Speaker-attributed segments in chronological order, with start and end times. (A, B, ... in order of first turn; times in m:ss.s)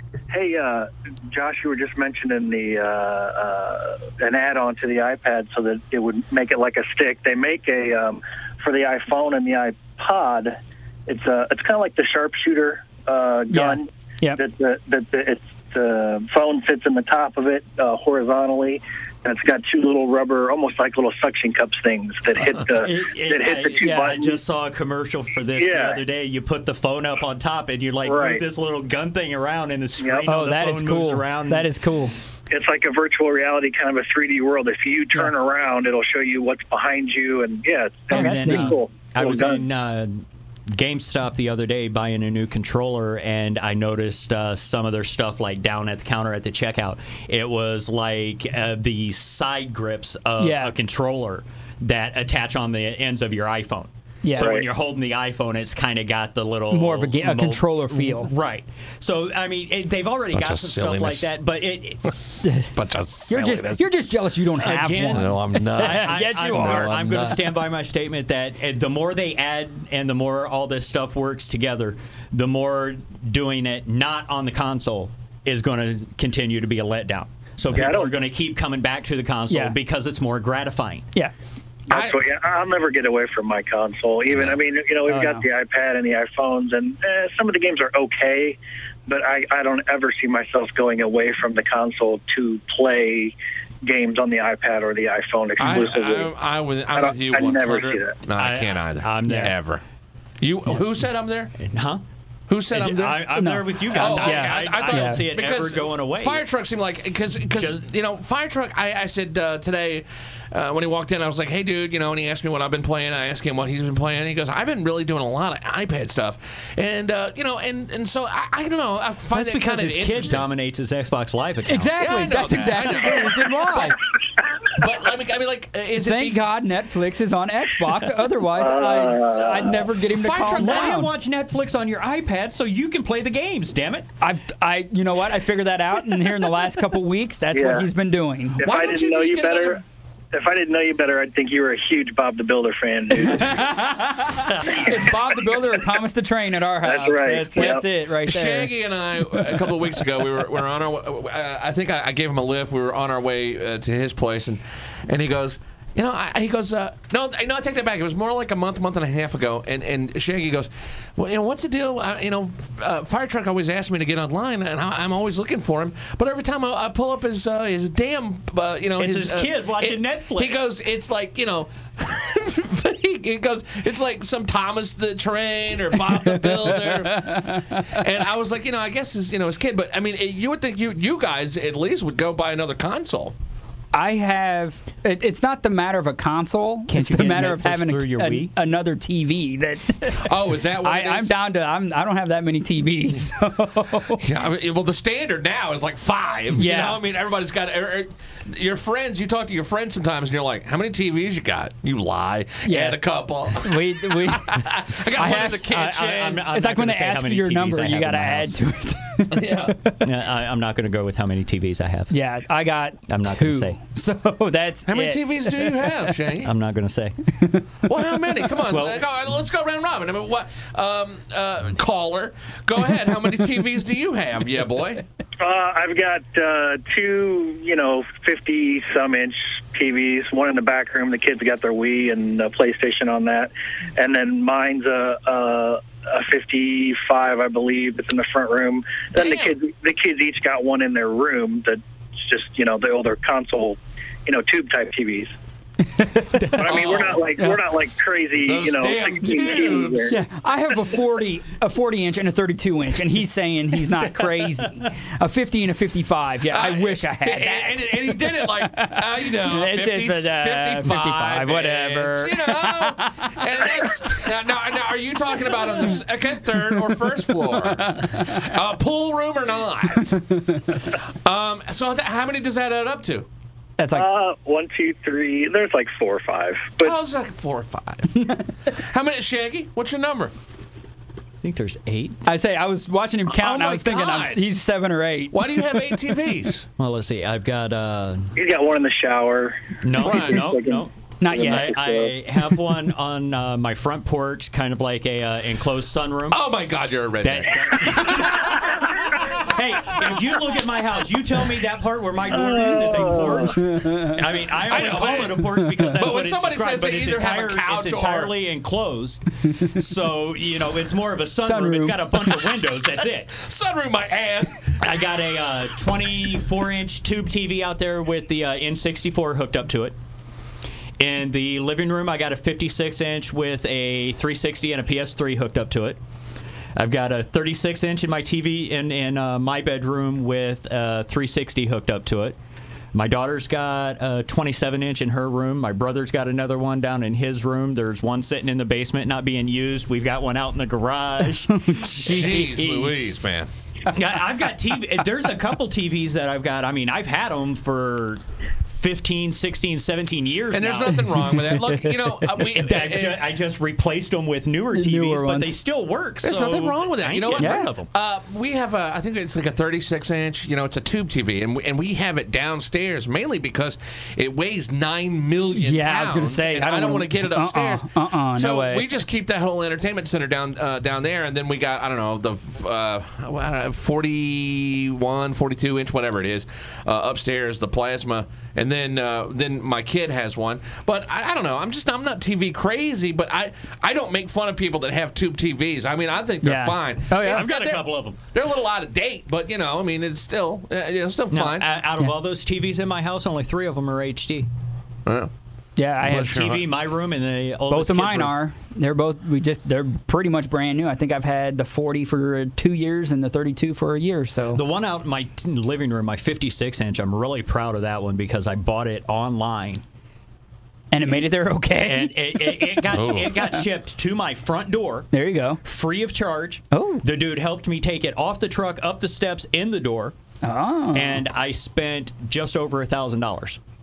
0:00.3-0:24.4 A
0:13.5-0:14.4 B
0:22.8-0:31.7 C
0:23.8-0:24.2 B
0:25.6-0:26.0 A
0:28.0-0:28.4 A
0:30.3-0:32.1 B
0:32.5-0:39.6 A
0:38.1-0:38.8 B
0:38.1-1:02.0 C
0:50.4-0:50.7 B
0:54.2-0:54.6 B
0:54.3-0:54.6 A
0:56.7-0:58.3 B
1:00.3-1:01.3 D
1:02.4-1:02.7 B
1:02.7-1:03.9 D
1:03.3-1:07.0 B
1:04.6-1:21.0 C
1:05.1-1:07.6 D
1:17.7-1:18.2 A
1:19.5-1:19.7 B
1:21.9-1:22.2 D
1:21.9-1:36.3 A
1:25.1-1:25.4 B
1:35.6-1:39.8 D
1:36.9-1:38.2 A
1:38.4-1:39.6 C
1:40.4-1:41.5 D
1:41.6-1:42.0 C
1:42.5-2:00.4 D
1:42.7-1:46.4 C
1:43.4-1:45.2 B
1:47.5-1:47.8 C
1:59.3-2:02.0 C
2:01.7-2:04.0 B
2:02.0-2:04.0 D
2:04.7-2:06.4 D
2:06.0-2:11.1 B
2:08.6-2:09.8 A
2:10.1-2:11.0 D
2:10.5-2:14.1 C
2:14.2-2:18.6 B
2:17.5-2:17.9 A
2:18.6-2:19.8 A
2:18.6-2:19.8 D
2:20.3-2:23.7 A
2:23.1-2:28.7 B
2:26.8-2:27.8 A
2:27.6-3:03.3 D
2:49.0-2:50.7 C
2:56.1-2:57.8 B
3:03.9-3:10.3 B
3:06.9-3:08.5 C
3:10.2-3:11.3 D
3:10.8-3:14.2 B
3:14.2-3:26.4 D
3:16.6-3:17.0 B
3:22.6-3:23.0 B
3:23.6-3:25.7 B
3:25.6-3:28.6 C
3:26.5-3:29.9 B
3:29.3-3:29.8 D
3:30.0-3:32.1 C
3:32.1-3:36.0 B
3:33.1-3:33.8 C
3:34.9-3:36.5 D
3:36.4-3:37.2 C
3:37.8-3:45.0 D
3:38.7-3:39.0 C
3:45.4-4:05.3 A
3:59.1-3:59.5 D
4:06.0-4:06.6 B
4:06.5-4:10.1 A
4:06.6-4:07.3 D
4:08.4-4:10.2 D
4:10.1-4:23.3 B
4:16.5-4:33.3 D
4:27.4-4:28.4 B
4:33.8-4:34.1 B
4:33.9-4:36.9 A
4:36.8-4:40.3 D
4:41.4-4:42.2 C
4:42.2-4:45.4 B
4:43.3-4:44.4 D
4:45.3-4:46.7 D
4:46.8-4:48.3 C
4:48.4-4:49.8 A
4:49.8-4:56.4 C
4:50.0-4:50.5 D
4:50.3-4:52.1 A
4:51.2-4:51.7 B
4:56.3-4:59.1 D
4:57.2-5:13.3 C
5:02.3-5:03.5 A
5:03.6-5:04.1 B
5:04.7-5:08.3 D
5:11.4-5:12.4 B
5:13.3-5:14.8 D
5:14.8-5:20.0 C
5:21.0-5:26.0 C
5:26.8-5:32.4 C
5:32.9-5:43.2 C
5:41.7-5:42.0 B
5:41.9-5:43.5 D
5:43.9-5:51.5 C
5:50.5-5:53.3 D
5:52.4-5:57.9 C
5:54.7-5:55.5 B
5:56.2-6:31.7 D
5:57.4-5:57.7 B
6:05.5-6:08.8 B
6:26.4-6:27.5 B
6:27.2-6:28.2 C
6:31.3-6:34.5 C
6:35.0-6:35.3 D
6:35.8-6:36.4 B
6:36.0-6:36.6 D
6:36.2-6:38.4 C
6:37.7-6:44.6 B
6:44.5-6:49.8 C
6:50.9-6:53.2 B
6:51.8-6:55.1 C
6:52.9-6:53.4 D
6:55.1-6:55.6 B
6:55.6-7:00.1 C
6:56.7-6:57.0 B
7:00.4-7:01.2 B
7:00.9-7:03.6 C